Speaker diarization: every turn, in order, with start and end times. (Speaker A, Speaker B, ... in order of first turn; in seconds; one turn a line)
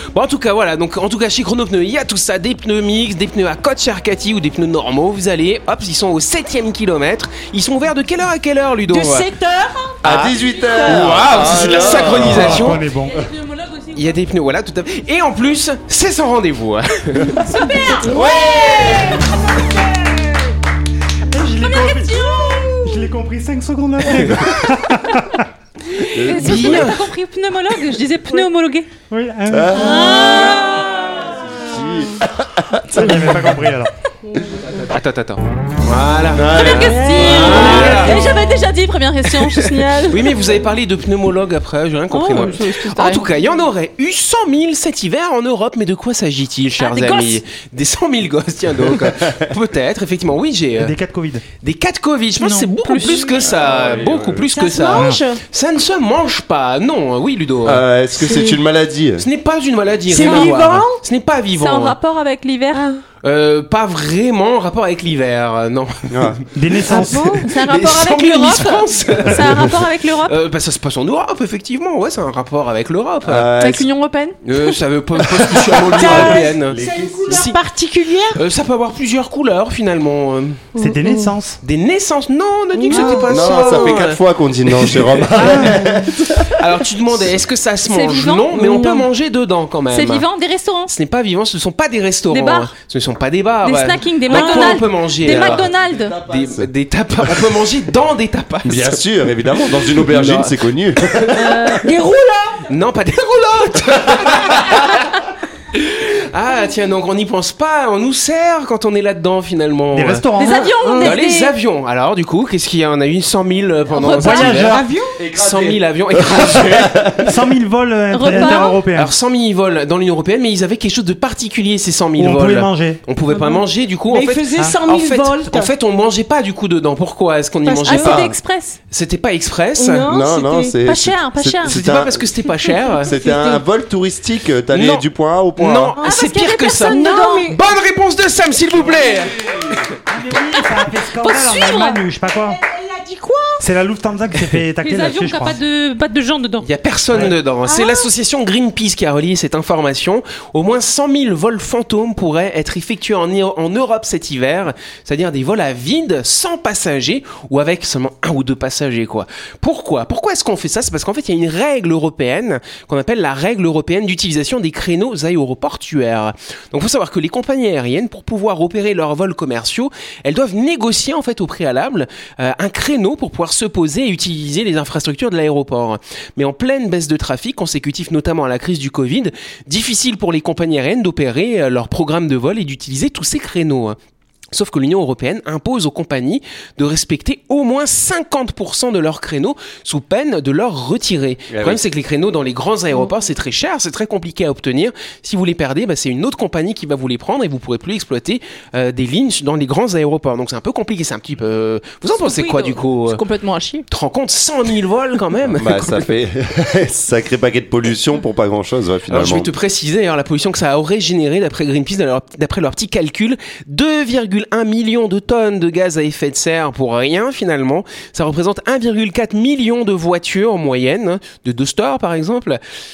Speaker A: 0.1-9.3
Speaker B: 8.9-10.0
Speaker C: 10.0-12.8
Speaker A: 10.0-12.8
Speaker B: 10.5-11.3
Speaker D: 12.1-13.2
Speaker E: 13.1-14.2
Speaker A: 13.9-17.3
Speaker E: 17.4-18.1
Speaker B: 17.5-20.3
Speaker C: 18.1-19.2
Speaker D: 21.2-22.2
Speaker E: 21.6-22.8
Speaker B: 22.4-22.7
Speaker D: 22.8-25.4
Speaker A: 25.9-27.1
Speaker C: 26.1-26.9
Speaker E: 26.2-28.9
Speaker D: 29.1-30.2
Speaker C: 29.5-30.6
Speaker E: 29.7-31.0
Speaker C: 31.5-33.6
Speaker D: 32.9-33.9
Speaker A: 34.8-38.2
Speaker C: 36.3-38.2
Speaker E: 36.5-40.3
Speaker B: 36.8-38.1
Speaker A: 39.3-50.9
Speaker E: 42.1-43.2
Speaker E: 46.8-47.4
Speaker D: 50.8-51.4
Speaker A: 51.6-57.8
Speaker E: 52.4-53.3
Speaker C: 53.4-54.5
Speaker B: 54.5-55.4
Speaker C: 57.6-59.2
Speaker B: 58.2-58.6
Speaker A: 59.2-62.0
Speaker B: 60.1-61.0
Speaker E: 60.2-60.5
Speaker E: 61.5-62.9
Speaker B: 62.7-63.0
Speaker A: 63.2-66.1
Speaker C: 66.1-66.4
Speaker D: 66.5-67.4
Speaker B: 66.9-67.5
Speaker A: 67.5-69.7
Speaker E: 67.5-70.3
Speaker A: 70.2-73.5
Speaker C: 73.2-73.9
Speaker E: 73.6-74.4
Speaker A: 74.4-77.6
Speaker C: 75.3-77.5
Speaker B: 75.8-78.4
Speaker A: 78.3-80.7
Speaker B: 80.7-81.3
Speaker D: 80.8-81.6
Speaker A: 81.6-85.5
Speaker B: 82.8-84.0
Speaker C: 83.2-86.5
Speaker D: 85.4-85.8
Speaker B: 85.6-86.0
Speaker A: 86.5-90.2
Speaker E: 87.8-88.5
Speaker B: 88.5-89.0
Speaker E: 89.9-90.9
Speaker A: 90.9-95.7
Speaker E: 92.3-92.7
Speaker E: 93.6-96.2
Speaker B: 94.3-94.8
Speaker C: 95.2-96.7
Speaker A: 96.2-99.0
Speaker C: 98.6-101.7
Speaker A: 100.0-100.5
Speaker E: 101.3-101.8
Speaker B: 101.8-102.6
Speaker A: 102.7-104.9
Speaker A: 105.7-110.2
Speaker D: 109.9-110.7
Speaker E: 110.4-111.5
Speaker B: 110.5-111.2
Speaker A: 111.0-114.8
Speaker E: 113.9-114.7
Speaker D: 114.2-114.9
Speaker B: 114.6-115.2
Speaker C: 115.2-117.4
Speaker A: 115.3-117.1
Speaker D: 117.2-119.1
Speaker E: 118.1-118.8
Speaker A: 118.9-128.3
Speaker D: 122.2-123.0
Speaker B: 123.3-125.7
Speaker B: 127.6-128.2
Speaker E: 127.8-128.8
Speaker A: 128.9-130.1
Speaker B: 129.8-130.8
Speaker C: 130.1-132.2
Speaker E: 130.8-131.8
Speaker A: 131.7-133.1
Speaker B: 132.9-133.6
Speaker C: 133.0-136.0
Speaker A: 134.7-135.0
Speaker A: 135.6-139.7
Speaker B: 136.0-137.6
Speaker E: 136.0-137.5
Speaker C: 138.9-139.8
Speaker D: 140.1-142.6
Speaker E: 141.2-142.0
Speaker B: 142.4-143.6
Speaker D: 143.6-145.6
Speaker E: 144.8-146.7
Speaker A: 146.6-184.0
Speaker B: 147.7-148.1
Speaker A: 184.5-203.2
Speaker C: 191.5-191.8
Speaker E: 202.2-203.9
Speaker A: 203.9-206.0
Speaker C: 205.5-209.5
Speaker A: 209.1-222.6